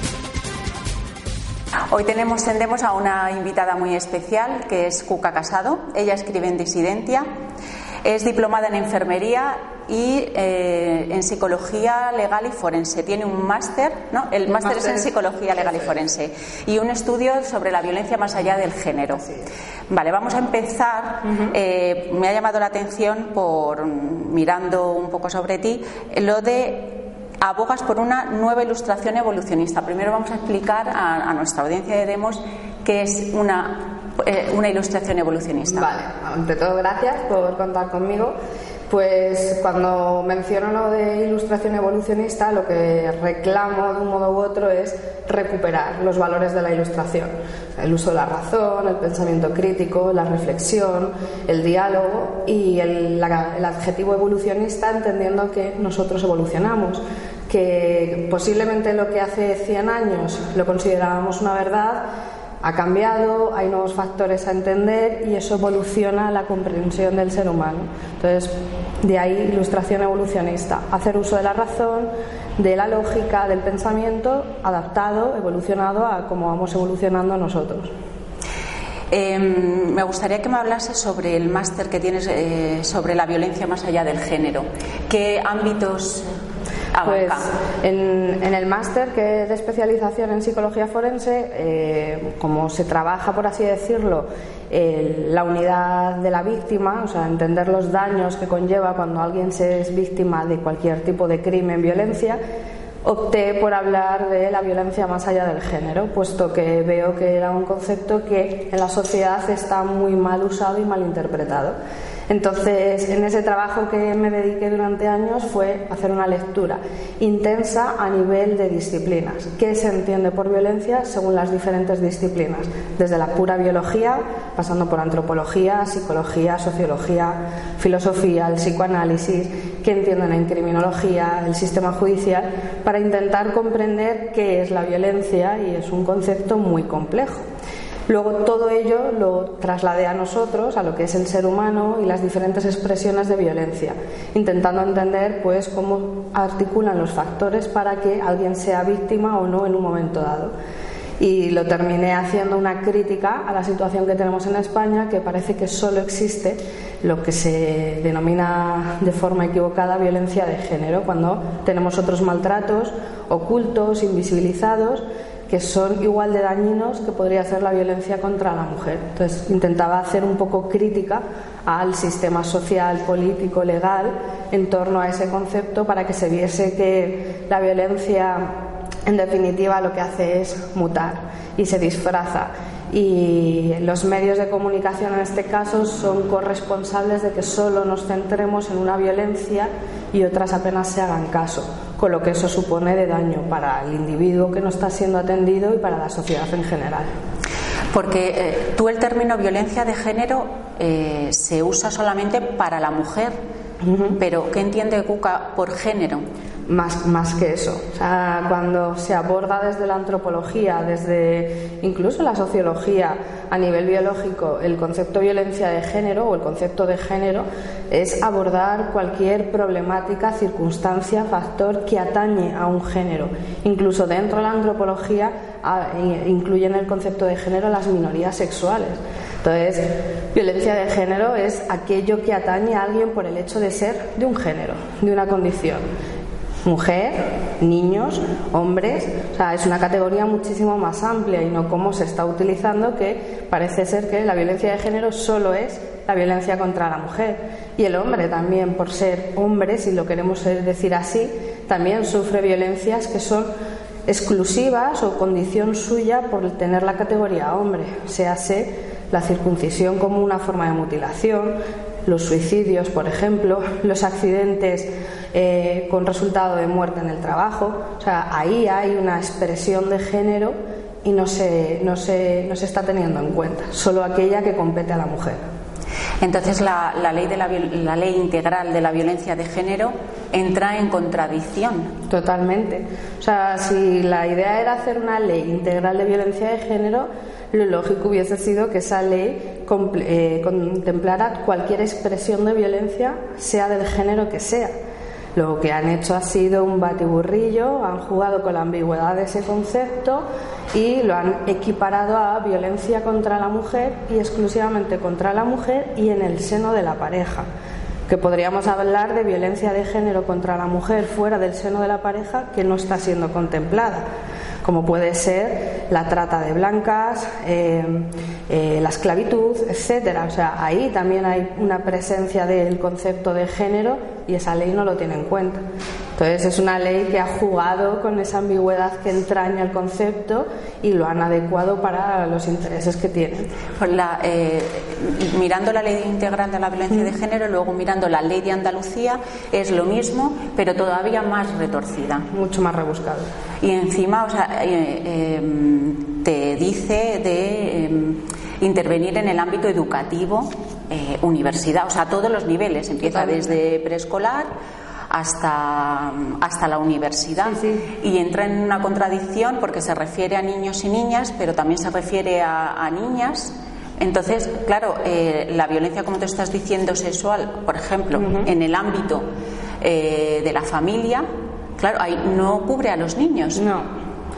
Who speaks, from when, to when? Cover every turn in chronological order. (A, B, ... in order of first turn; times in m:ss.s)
0:01.9-0:07.2 A
0:08.0-0:19.3 A
0:14.6-0:15.1 B
0:19.9-0:35.9 A
0:21.2-0:21.5 B
0:35.7-0:38.3 B
0:38.9-1:02.0 B
1:02.6-1:17.9 B
1:19.1-1:26.3 A
1:26.9-1:27.5 A
1:27.0-1:42.4 B
1:43.0-1:51.7 B
1:52.3-2:17.4 B
2:18.1-2:30.5 B
2:31.2-3:17.1 B
3:17.9-3:23.4 A
3:23.8-3:24.2 B
3:24.2-3:26.2 A
3:26.7-3:55.8 B
3:56.6-4:13.5 B
4:14.1-4:35.4 B
4:36.2-4:41.9 A
4:42.1-4:54.7 B
4:55.3-5:07.5 B
5:08.1-5:14.0 B
5:14.6-5:25.6 B
5:26.2-5:33.5 B
5:33.8-5:42.3 A
5:42.3-5:43.3 B
5:43.6-5:54.5 A
5:53.0-5:53.5 B
5:55.1-6:09.2 A
5:57.4-5:57.8 B
6:08.2-6:08.5 B
6:09.8-6:11.2 A
6:11.8-6:13.6 A
6:13.6-6:13.9 B